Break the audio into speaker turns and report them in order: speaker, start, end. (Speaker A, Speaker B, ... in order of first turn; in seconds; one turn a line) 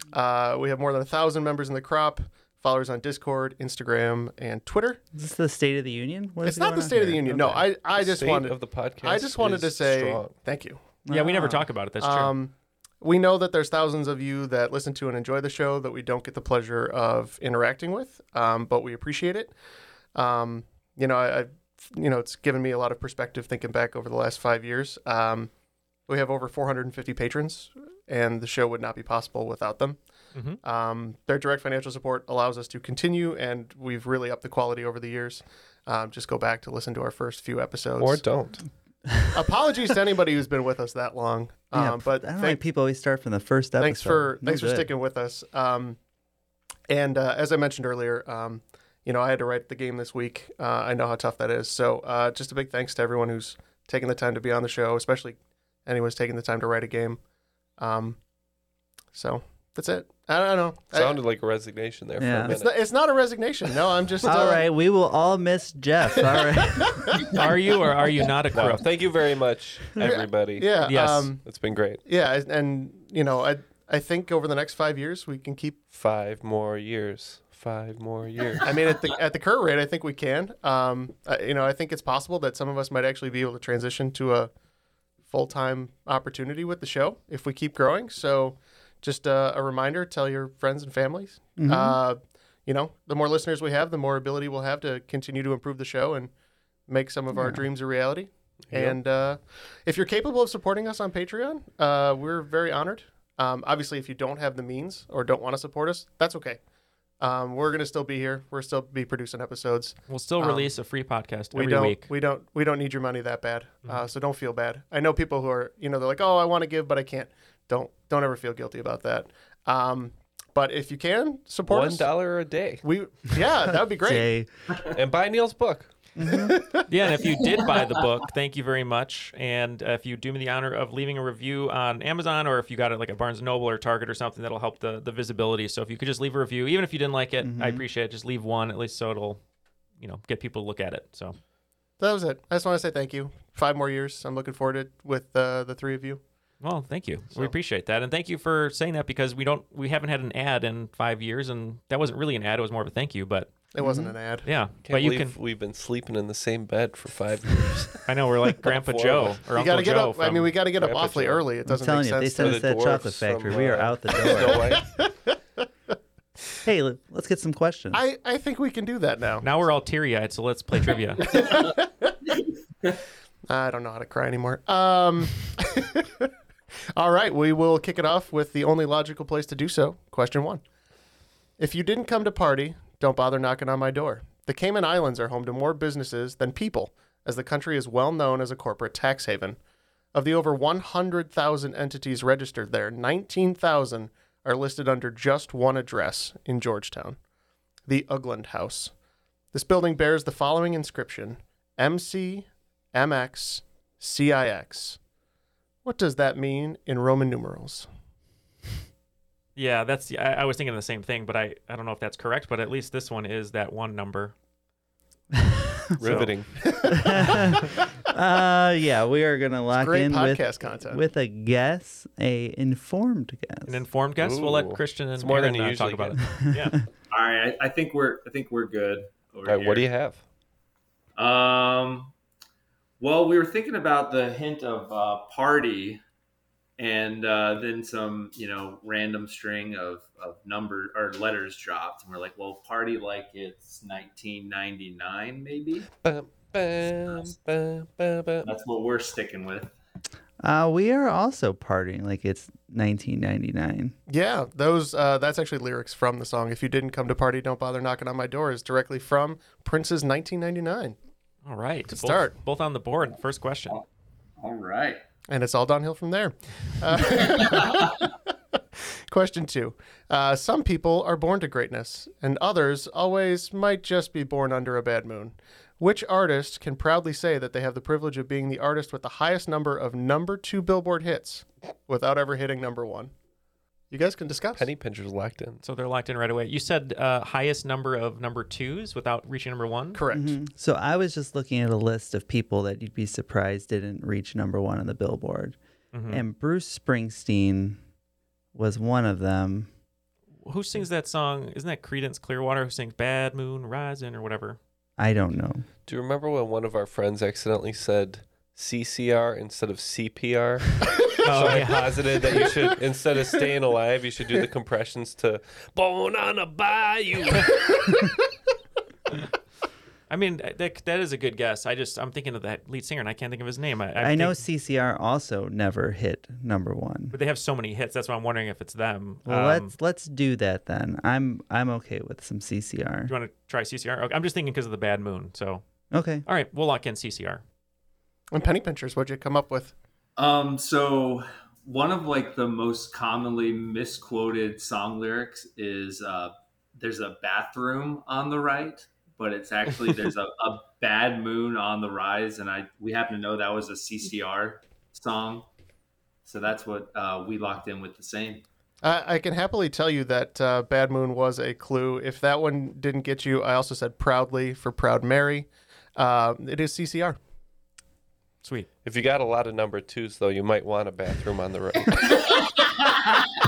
Speaker A: 0.1-5.0
Speaker B: 5.1-7.7
Speaker A: 6.4-10.8
Speaker C: 8.0-10.4
Speaker B: 11.1-11.6
Speaker D: 11.1-12.3
Speaker A: 11.4-19.5
Speaker A: 20.1-25.5
Speaker A: 26.1-30.0
Speaker D: 30.3-30.6
Speaker A: 30.6-38.2
Speaker C: 38.0-38.6
Speaker B: 39.1-39.4
Speaker A: 39.3-42.6
Speaker B: 41.7-44.9
Speaker A: 43.8-46.0
Speaker A: 46.9-57.2
Speaker A: 57.8-58.2
Speaker A: 59.1-61.2
Speaker C: 60.9-62.8
Speaker B: 62.2-62.6
Speaker A: 62.5-64.6
Speaker B: 64.2-67.2
Speaker A: 66.3-67.3
Speaker D: 67.3-68.9
Speaker C: 68.5-70.7
Speaker A: 70.0-71.5
Speaker D: 70.8-71.3
Speaker C: 71.5-72.0
Speaker A: 72.0-75.8
Speaker C: 75.9-78.7
Speaker A: 78.6-84.5
Speaker A: 85.3-96.3
Speaker B: 91.6-92.0
Speaker A: 96.9-106.6
Speaker B: 97.3-97.7
Speaker C: 98.7-99.0
Speaker A: 107.2-110.7
Speaker D: 110.1-112.1
Speaker A: 111.5-122.1
Speaker C: 121.7-122.8
Speaker A: 122.8-124.3
Speaker B: 124.0-124.5
Speaker C: 124.9-125.9
Speaker B: 126.2-126.6
Speaker A: 126.3-126.8
Speaker D: 126.9-139.4
Speaker B: 137.4-137.8
Speaker D: 140.0-141.4
Speaker A: 142.0-146.2
Speaker D: 146.6-153.5
Speaker A: 153.7-154.5
Speaker B: 153.8-154.2
Speaker D: 154.4-155.3
Speaker C: 154.8-158.0
Speaker D: 158.0-160.5
Speaker C: 158.7-159.4
Speaker A: 159.5-162.6
Speaker C: 160.8-161.5
Speaker B: 161.7-164.8
Speaker C: 162.4-164.8
Speaker A: 164.8-165.1
Speaker B: 166.6-168.0
Speaker A: 167.9-169.5
Speaker D: 169.4-171.3
Speaker A: 171.3-172.2
Speaker A: 173.5-176.3
Speaker A: 177.0-180.6
Speaker A: 181.6-189.6
Speaker A: 190.1-197.2
Speaker A: 197.9-198.9
Speaker A: 199.5-205.0
Speaker A: 205.8-207.9
Speaker D: 209.6-214.3
Speaker B: 215.3-216.0
Speaker C: 216.0-216.5
Speaker D: 216.0-216.3
Speaker A: 216.7-217.5
Speaker B: 216.9-223.8
Speaker A: 219.8-221.0
Speaker D: 223.7-226.8
Speaker C: 224.2-226.2
Speaker B: 226.3-226.8
Speaker E: 227.1-229.9
Speaker C: 229.4-230.2
Speaker E: 231.2-232.1
Speaker E: 233.0-236.0
Speaker E: 236.8-245.9
Speaker C: 246.0-248.5
Speaker E: 248.4-249.8
Speaker B: 250.4-254.0
Speaker A: 254.1-261.0
Speaker D: 261.4-263.8
Speaker A: 261.9-262.4
Speaker E: 264.4-265.0
Speaker A: 265.3-268.1
Speaker A: 269.1-283.1
Speaker A: 283.9-284.7
Speaker C: 284.6-285.6
Speaker D: 285.6-290.0
Speaker A: 289.9-290.4
Speaker B: 290.1-295.6
Speaker D: 295.9-296.2
Speaker B: 296.1-297.8
Speaker B: 298.5-299.7
Speaker D: 300.4-304.6
Speaker B: 305.0-305.7
Speaker C: 305.9-317.9
Speaker D: 311.2-312.2
Speaker D: 320.1-324.4
Speaker B: 324.0-327.2
Speaker D: 327.1-329.7
Speaker B: 329.3-333.1
Speaker D: 333.1-335.6
Speaker B: 335.9-336.2
Speaker D: 336.3-337.4
Speaker A: 338.3-339.7
Speaker E: 340.2-355.5
Speaker E: 356.2-358.4
Speaker A: 358.8-367.2
Speaker D: 368.4-368.7
Speaker C: 368.9-372.2